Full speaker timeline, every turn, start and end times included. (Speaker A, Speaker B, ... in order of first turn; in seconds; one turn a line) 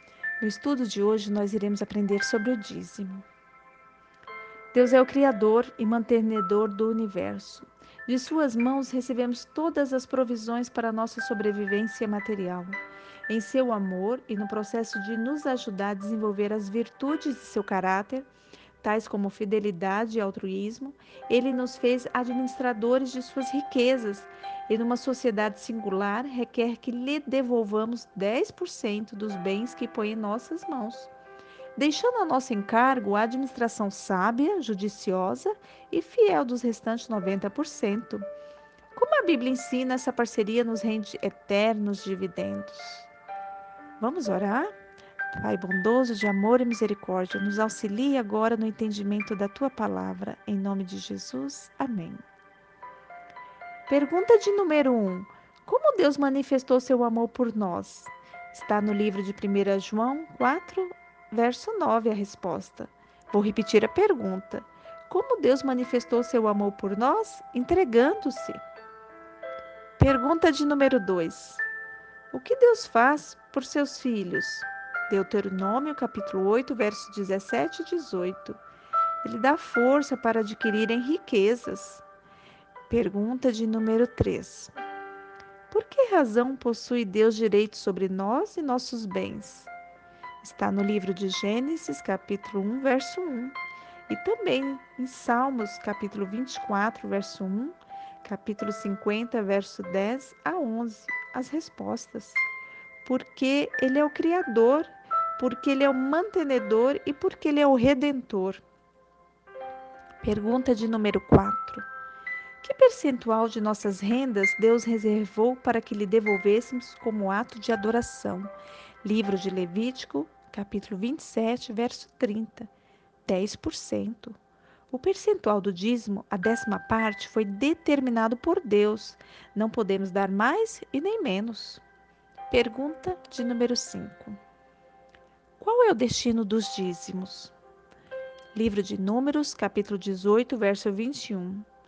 Speaker A: 0.4-3.2
Speaker A: 4.7-12.8
Speaker A: 13.3-18.3
Speaker A: 18.8-31.1
Speaker A: 31.8-38.2
Speaker A: 38.9-43.1
Speaker A: 44.0-44.7
Speaker A: 45.3-52.2
Speaker A: 53.9-68.6
Speaker A: 70.0-71.6
Speaker A: 72.3-78.6
Speaker A: 79.2-82.0
Speaker A: 82.9-84.7
Speaker A: 85.7-89.7
Speaker A: 90.4-93.5
Speaker A: 94.1-102.4
Speaker A: 103.0-108.6
Speaker A: 110.2-111.9
Speaker A: 112.6-118.5
Speaker A: 119.0-122.7
Speaker A: 123.2-124.4
Speaker A: 124.9-131.8
Speaker A: 132.5-134.4
Speaker A: 135.6-137.5
Speaker A: 138.5-141.7